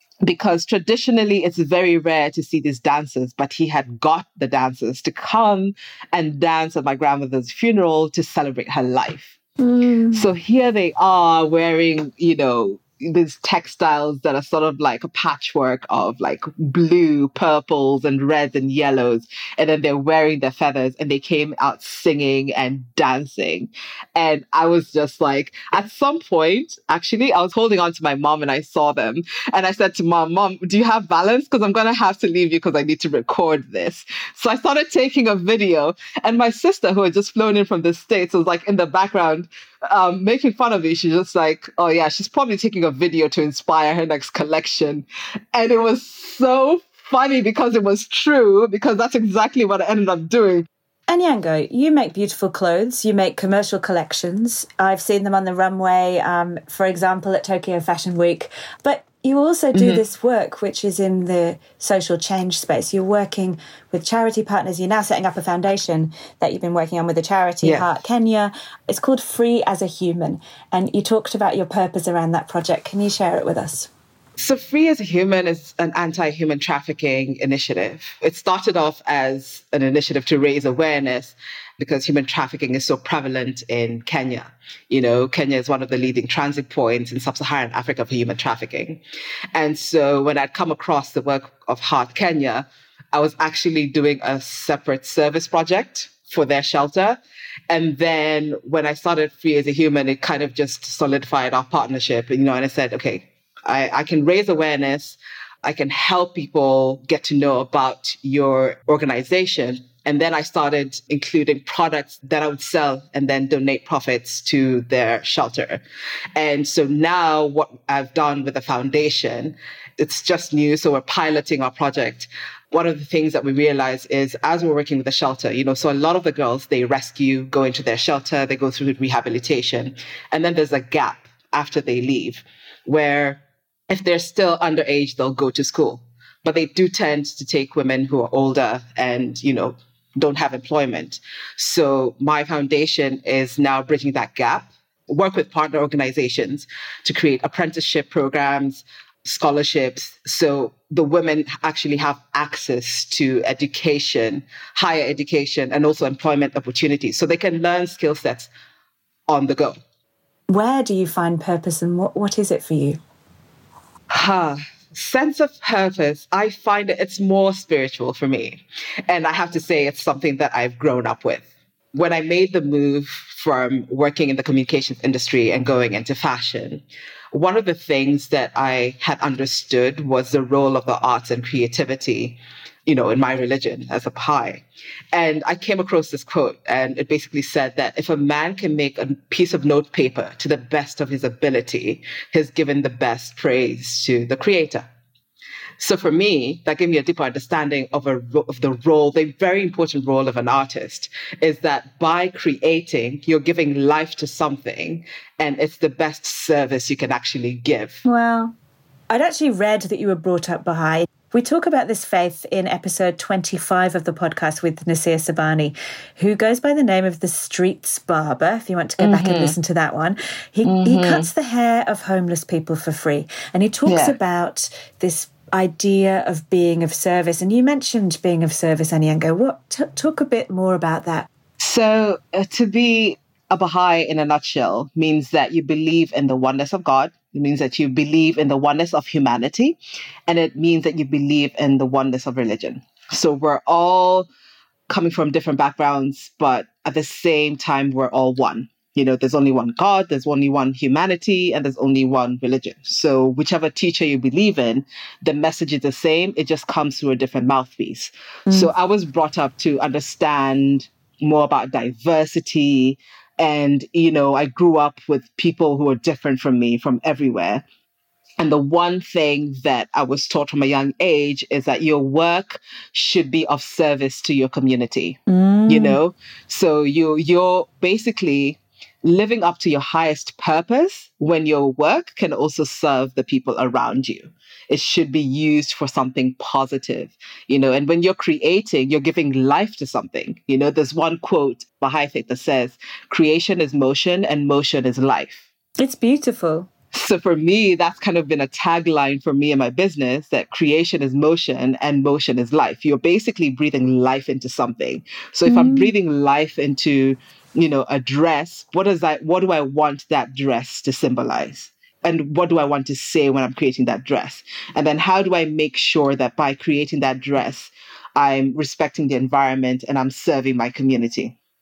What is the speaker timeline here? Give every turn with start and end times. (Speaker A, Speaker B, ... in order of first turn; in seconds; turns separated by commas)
Speaker A: 0.2-9.3, Speaker B: 9.6-10.2, Speaker A: 10.1-50.7, Speaker B: 51.1-73.9, Speaker A: 59.7-60.0, Speaker A: 67.6-67.9, Speaker A: 74.4-89.0, Speaker A: 89.5-115.8, Speaker A: 116.3-158.5, Speaker A: 159.3-159.8, Speaker B: 160.5-163.0, Speaker A: 164.1-194.9, Speaker A: 195.8-208.0, Speaker B: 208.0-208.5, Speaker B: 209.1-231.3, Speaker A: 219.0-219.5, Speaker A: 220.6-221.3, Speaker A: 223.8-224.2, Speaker A: 231.6-244.3, Speaker A: 244.9-267.6, Speaker A: 268.4-295.4, Speaker B: 275.3-276.0, Speaker B: 295.8-296.7, Speaker A: 296.9-321.3, Speaker B: 305.5-305.9